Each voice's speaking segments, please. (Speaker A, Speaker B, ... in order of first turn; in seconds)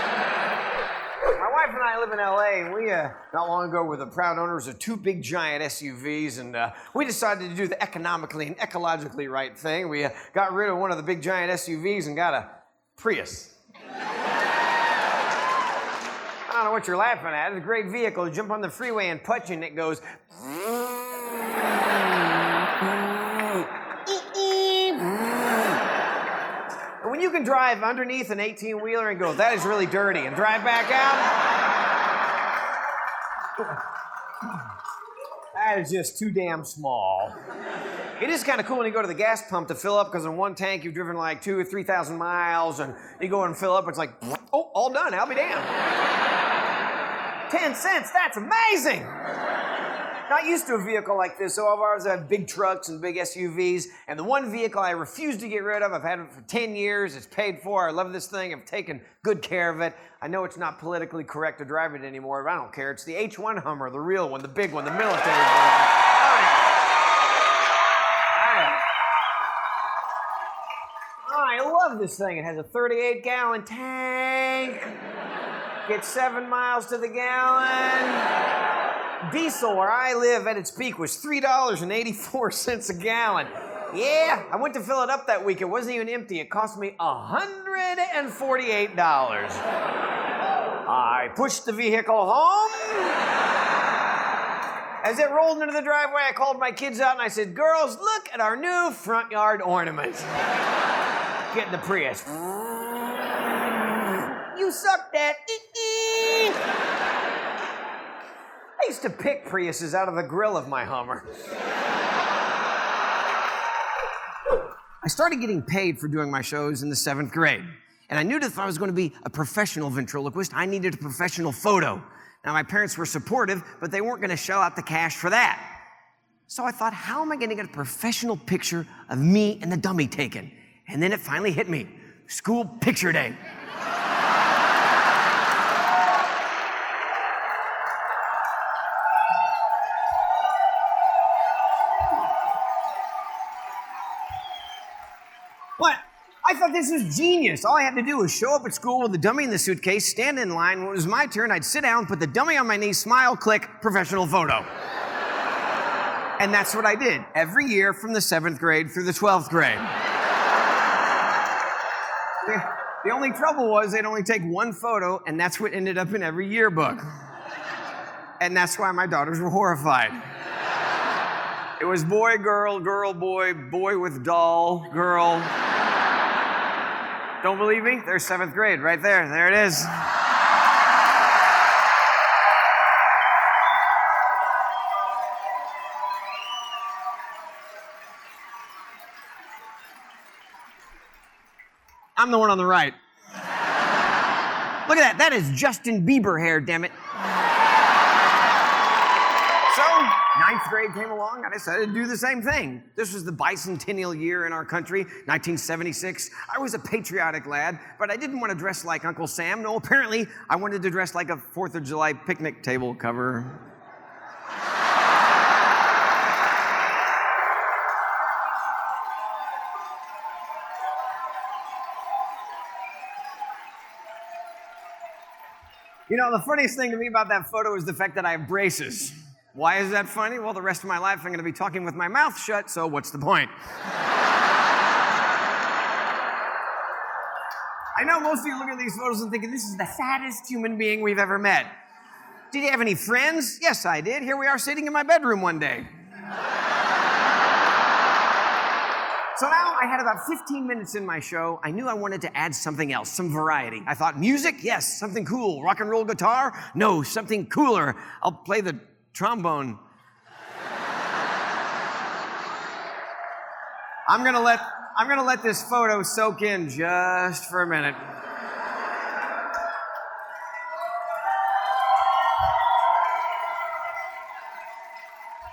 Speaker A: 1.3-13.6, 16.5-20.1, 24.1-25.0, 27.0-31.3, 35.5-37.4, 38.2-45.7, 47.5-49.1, 50.3-66.6, 68.3-68.8, 71.3-74.9, 75.9-78.3, 79.2-89.7, 90.8-93.2, 95.0-100.3, 101.5-106.6, 108.8-111.3, 115.0-125.8, 126.5-133.4, 145.8-154.7, 156.4-159.9, 162.4-167.1, 168.4-170.2, 171.8-175.5, 177.4-179.9, 192.2-193.0, 194.9-197.0, 199.7-213.6, 226.1-233.5, 237.9-241.7, 242.5-245.9, 249.3-259.8, 264.1-268.0